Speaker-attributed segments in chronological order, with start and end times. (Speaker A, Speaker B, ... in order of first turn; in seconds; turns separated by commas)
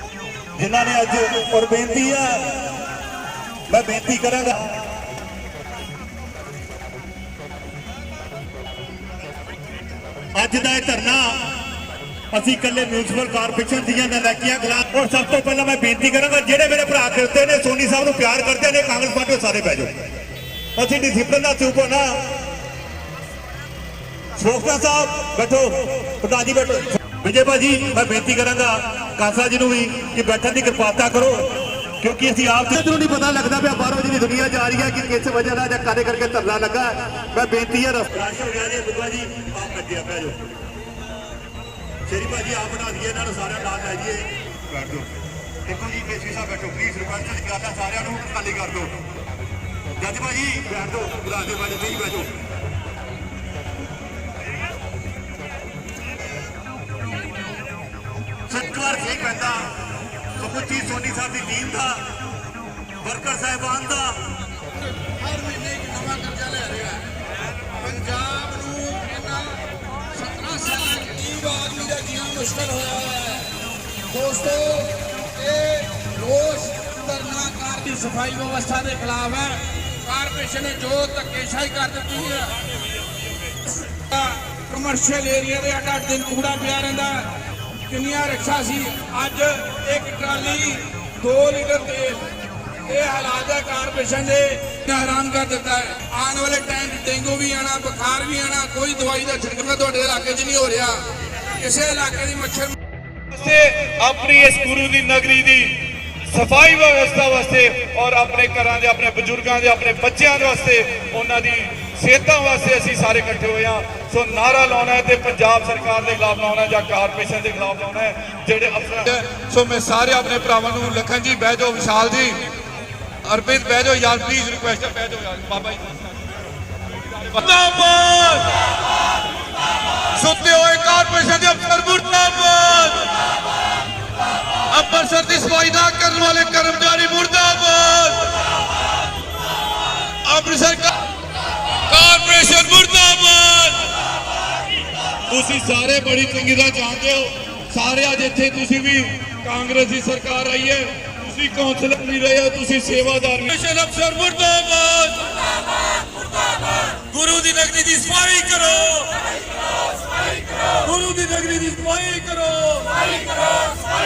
Speaker A: 0.6-2.6, Speaker A: 3.7-4.8, Speaker A: 10.3-11.5, Speaker A: 12.3-20.0, Speaker A: 20.8-22.1, Speaker A: 24.4-40.5, Speaker A: 42.1-45.1, Speaker A: 45.7-48.9, Speaker A: 50.0-52.3, Speaker A: 58.5-59.7, Speaker A: 60.4-62.0, Speaker A: 63.0-64.2, Speaker B: 65.4-66.1, Speaker C: 65.6-66.7, Speaker B: 66.7-66.9, Speaker B: 67.9-69.4, Speaker C: 68.0-68.8, Speaker B: 70.2-73.4, Speaker B: 74.2-82.5, Speaker B: 84.1-87.2, Speaker B: 87.9-92.2, Speaker B: 92.9-100.9, Speaker C: 99.1-100.5, Speaker B: 101.6-102.7, Speaker C: 103.3-122.4, Speaker C: 123.2-126.0, Speaker C: 127.2-128.4, Speaker C: 130.2-133.0, Speaker C: 134.7-138.2, Speaker C: 140.3-140.9, Speaker C: 141.9-143.8, Speaker C: 145.3-155.2, Speaker C: 157.1-159.1, Speaker C: 160.8-163.0